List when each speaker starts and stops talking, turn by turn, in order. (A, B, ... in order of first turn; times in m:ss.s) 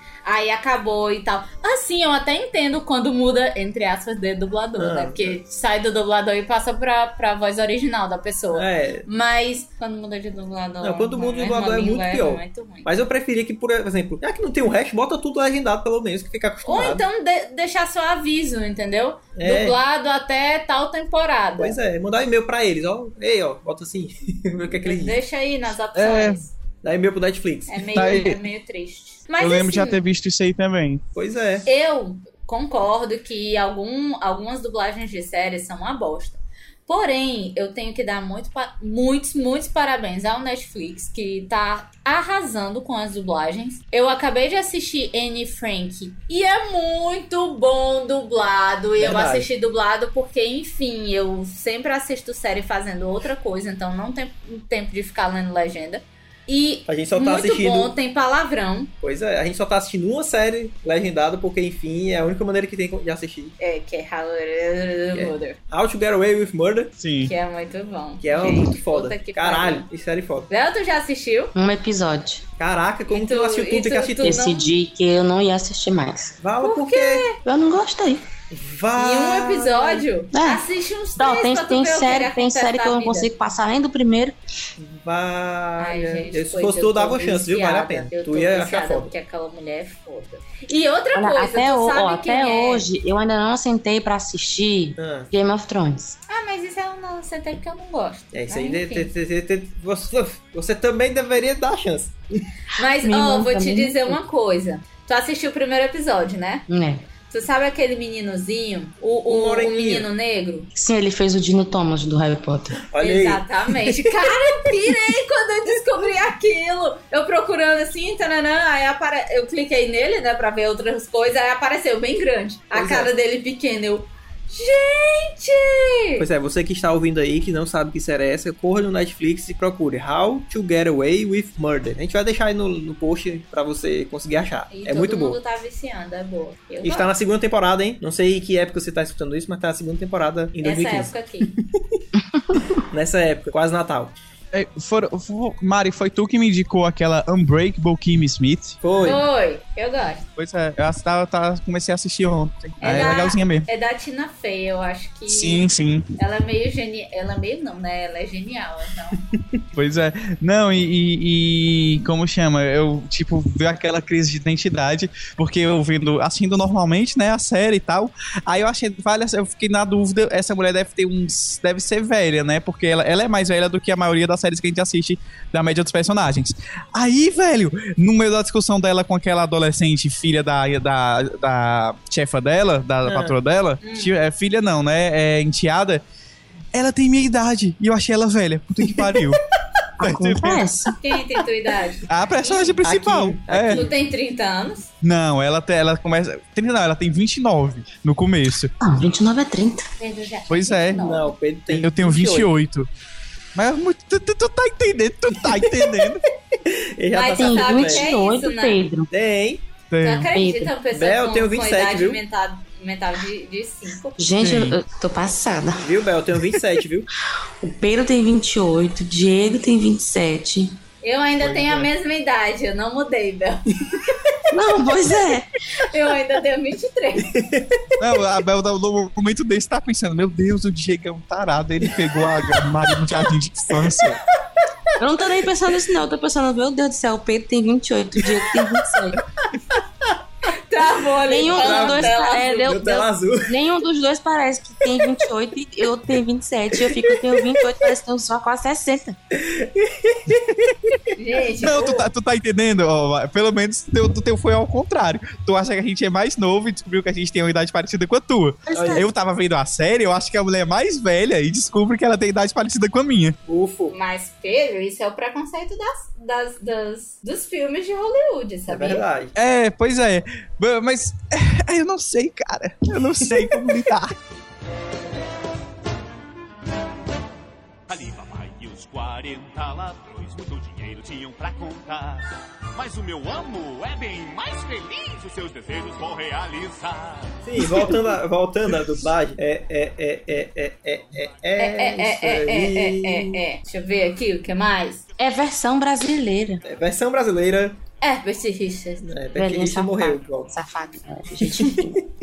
0:00.3-0:12.9 A
0:04.8-0:05.2 B
0:08.5-0:09.1 B
0:10.8-0:17.0 B
0:16.6-0:21.8 A
0:19.4-0:19.8 B
0:21.6-0:25.2 B
0:24.8-0:26.5 A
0:25.9-0:26.4 C
0:26.8-0:27.9 B
0:27.7-0:30.0 A
0:27.9-0:28.4 C
0:29.4-0:31.0 C
0:31.2-0:31.7 B
0:31.6-0:58.9 A
0:49.0-0:49.5 B
0:56.9-0:58.0 B
0:59.0-1:03.6 B
1:03.6-1:05.6 A
1:05.1-1:06.9 B
1:07.0-1:07.3 C
1:07.2-1:09.9 A
1:08.2-1:10.5 B
1:10.5-1:11.5 A
1:11.6-1:12.4 D
1:12.6-1:14.4 B
1:13.1-1:14.7 A
1:14.2-1:16.4 D
1:16.4-1:17.3 B
1:16.6-1:17.4 A
1:17.4-1:18.2 D
1:18.5-1:20.1 B
1:19.0-1:23.3 A
1:20.3-1:20.6 D
1:21.2-1:24.4 D
1:24.8-1:29.1 B
1:25.8-1:32.9 A
1:31.2-1:36.2 D
1:35.0-1:35.3 B
1:36.3-1:39.1 A
1:38.3-1:42.2 B
1:42.8-1:46.7 A
1:43.0-1:44.2 D
1:46.7-1:47.1 D
1:47.3-1:50.7 A
1:49.3-1:50.1 B
1:50.7-1:52.8 D
1:52.9-1:54.1 B
1:53.0-2:06.3 A
2:02.7-2:03.1 B
2:06.2-2:15.4 B
2:14.7-2:17.1 A
2:16.8-2:22.0 B
2:20.6-2:21.5 A
2:22.9-2:24.1 B
2:24.5-2:28.8 C
2:28.8-2:29.2 B
2:29.0-2:30.3 A
2:30.4-2:33.7 C
2:32.8-2:35.7 A
2:35.3-2:36.1 C
2:36.2-2:39.2 A
2:39.8-3:06.0 C
3:03.0-3:03.4 B
3:03.8-3:04.1 A
3:06.7-3:09.4 C
3:08.9-3:09.4 B
3:10.0-3:10.9 D
3:10.0-3:10.7 C
3:11.0-3:12.8 A
3:12.1-3:13.8 C
3:12.8-3:14.0 B
3:13.7-3:14.9 A
3:15.0-3:18.7 C
3:18.8-3:19.9 D
3:20.0-3:21.3 A
3:20.5-3:21.0 C
3:21.0-3:22.5 B
3:21.7-3:22.9 C
3:23.6-3:26.2 C
3:25.5-3:26.1 B
3:26.6-3:28.1 B
3:27.1-3:28.8 A
3:27.4-3:29.1 D
3:29.1-3:29.6 B
3:29.9-3:30.3 C
3:30.0-3:34.2 A
3:30.3-3:30.7 D
3:30.9-3:32.2 B
3:34.2-3:35.9 D
3:34.4-3:34.8 C
3:35.8-3:37.1 B
3:37.6-3:40.8 D
3:41.0-3:43.6 A
3:41.4-3:41.9 B
3:44.5-3:45.5 D
3:45.8-3:47.3 A
3:47.2-3:47.9 B
3:48.0-3:54.2 C
3:55.0-3:59.2 D
4:00.5-4:02.8 A
4:01.3-4:09.2 D
4:01.5-4:03.5 B
4:06.9-4:07.5 B
4:09.3-4:11.0 B
4:11.2-4:12.1 A
4:11.6-4:23.4 C
4:18.7-4:19.1 D
4:18.8-4:19.0 B
4:23.5-4:23.9 B
4:23.9-4:29.0 A
4:28.7-4:29.3 B
4:29.4-4:34.1 C
4:33.3-4:33.7 B
4:37.9-4:47.5 E
4:47.5-4:53.4 B
4:51.6-4:55.0 A
4:55.2-4:56.6 D
4:56.6-4:57.8 B
4:58.0-4:59.1 A
4:59.0-5:00.5 B
4:59.4-5:02.0 D
5:01.4-5:01.9 B